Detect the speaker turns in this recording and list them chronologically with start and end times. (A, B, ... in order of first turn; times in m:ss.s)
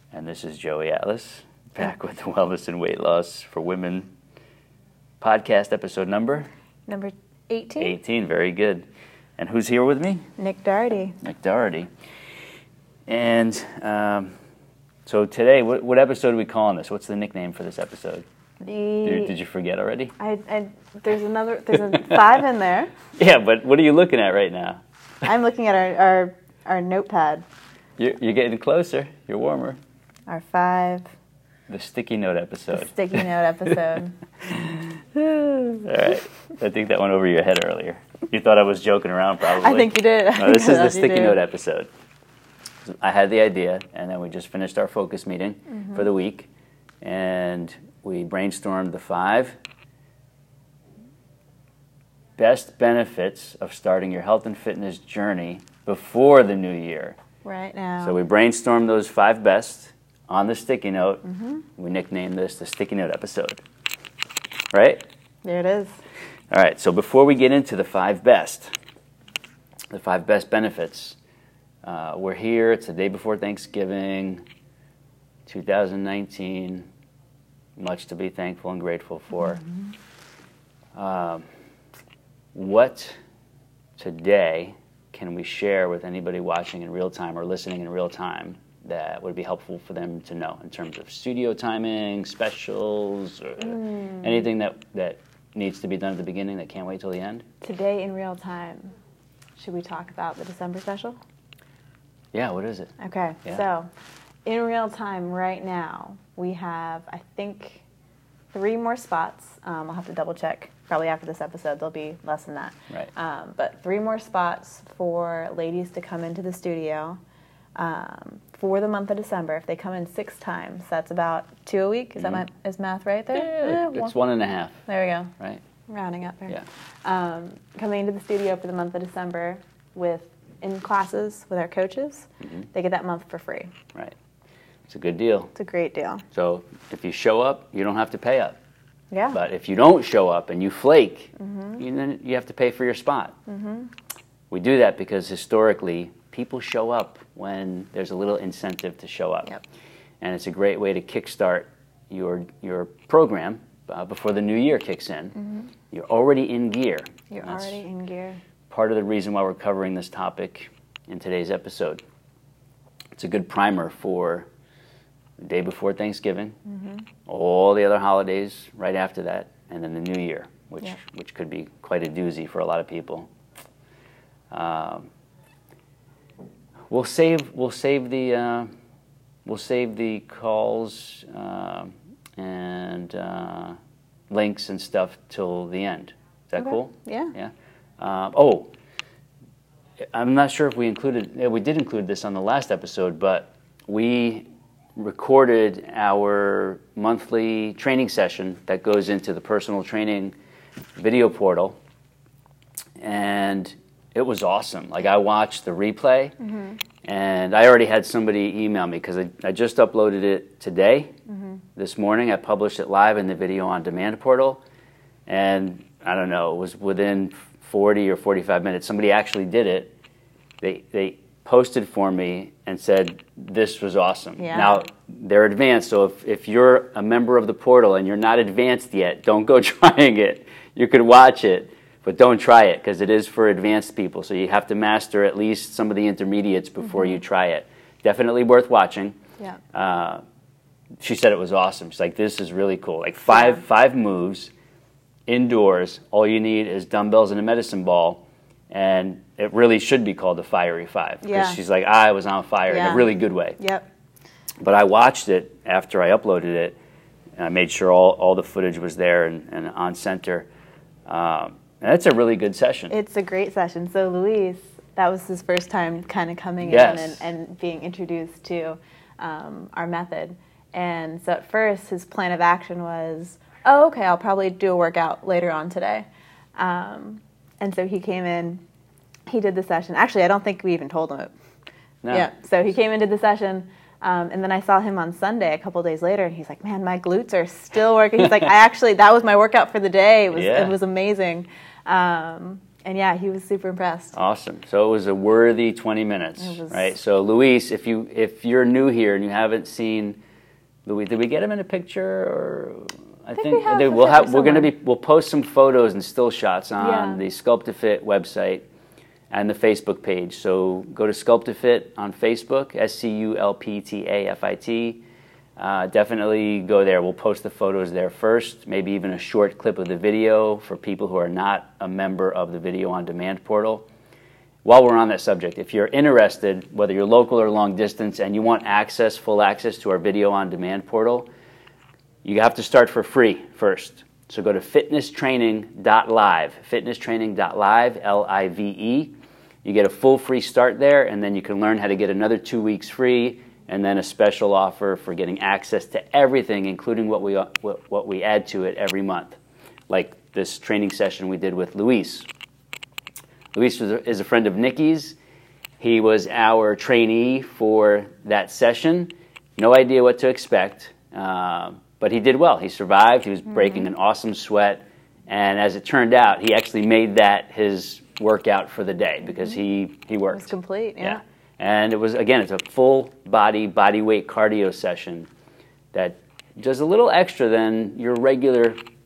0:00.1-0:04.1 A
0:05.2-0:06.5 A
0:06.9-0:07.9 B
0:07.8-0:08.8 A
0:09.4-0:10.2 A
0:10.4-0:11.2 B
0:11.2-0:11.9 A
0:13.1-0:14.3 A
0:15.0-0:18.2 A
0:18.6-0:19.3 B
0:19.0-0:20.1 A
0:20.2-0:22.9 B
0:21.7-0:22.2 A
0:23.2-0:24.8 A
0:25.2-0:27.4 B
0:28.0-0:29.8 A
0:30.3-0:31.1 B
0:31.7-0:33.2 A
0:32.7-0:34.2 B
0:34.4-0:41.9 A
0:39.4-0:41.4 B
0:42.8-0:46.5 A
0:47.0-0:49.6 A
0:52.4-0:57.2 A
0:57.4-0:58.2 B
0:58.0-1:01.2 A
1:01.2-1:01.6 B
1:01.8-1:03.6 A
1:04.7-1:05.0 A
1:05.4-1:06.0 B
1:06.5-1:08.7 A
1:09.9-1:11.2 A
1:11.8-1:14.4 A
1:15.5-1:16.9 A
1:17.8-1:19.6 A
1:20.9-1:21.4 A
1:22.5-1:23.2 A
1:24.0-1:37.4 A
1:33.9-1:34.2 B
1:37.6-1:38.9 B
1:39.6-1:41.2 B
1:42.3-1:42.9 A
1:43.0-1:43.9 B
1:44.4-1:47.8 B
1:48.5-1:57.2 B
1:57.8-2:04.1 B
2:02.2-2:02.4 A
2:03.3-2:04.8 A
2:04.9-2:05.3 B
2:05.9-2:13.7 B
2:14.9-2:15.5 A
2:15.5-2:16.2 B
2:16.3-2:18.6 A
2:19.1-2:19.4 B
2:19.3-2:23.3 A
2:21.4-2:21.8 B
2:23.5-2:23.9 B
2:24.5-2:29.6 A
2:30.2-2:35.3 A
2:35.4-2:35.7 B
2:35.9-2:37.8 A
2:37.3-2:38.4 B
2:38.7-2:42.0 A
2:43.2-2:44.5 A
2:45.4-2:46.6 A
2:46.7-2:47.0 B
2:47.2-2:53.3 A
2:54.5-2:55.1 A
2:56.9-2:58.7 A
2:59.4-3:03.8 A
3:04.3-3:08.7 A
3:06.6-3:07.3 B
3:10.1-3:20.3 A
3:21.0-3:21.8 A
3:23.0-3:26.3 A
3:26.4-3:26.8 B
3:27.0-3:31.1 A
3:31.3-3:31.6 B
3:31.8-3:34.6 A
3:35.3-3:39.9 A
3:40.6-3:59.2 A
3:44.4-3:44.8 B
3:59.7-4:00.2 A
4:01.0-4:04.5 A
4:05.3-4:13.6 A
4:11.2-4:11.6 B
4:12.7-4:13.9 B
4:14.6-4:16.8 A
4:17.4-4:20.5 A
4:21.1-4:22.9 A
4:22.9-4:38.6 B
4:26.6-4:27.2 A
4:39.3-4:41.3 B
4:42.0-4:42.3 A
4:42.1-4:54.1 B
4:50.3-4:50.7 A
4:54.1-5:00.2 A
4:56.4-4:56.9 B
5:00.8-5:08.6 A
5:03.3-5:04.7 B
5:06.8-5:07.2 B
5:09.3-5:15.0 A
5:15.6-5:23.8 A
5:24.6-5:31.3 A
5:32.2-5:49.4 A
5:49.9-5:52.3 A
5:53.5-5:55.2 A
5:55.8-6:15.3 A
6:10.3-6:11.2 B
6:15.9-6:18.8 A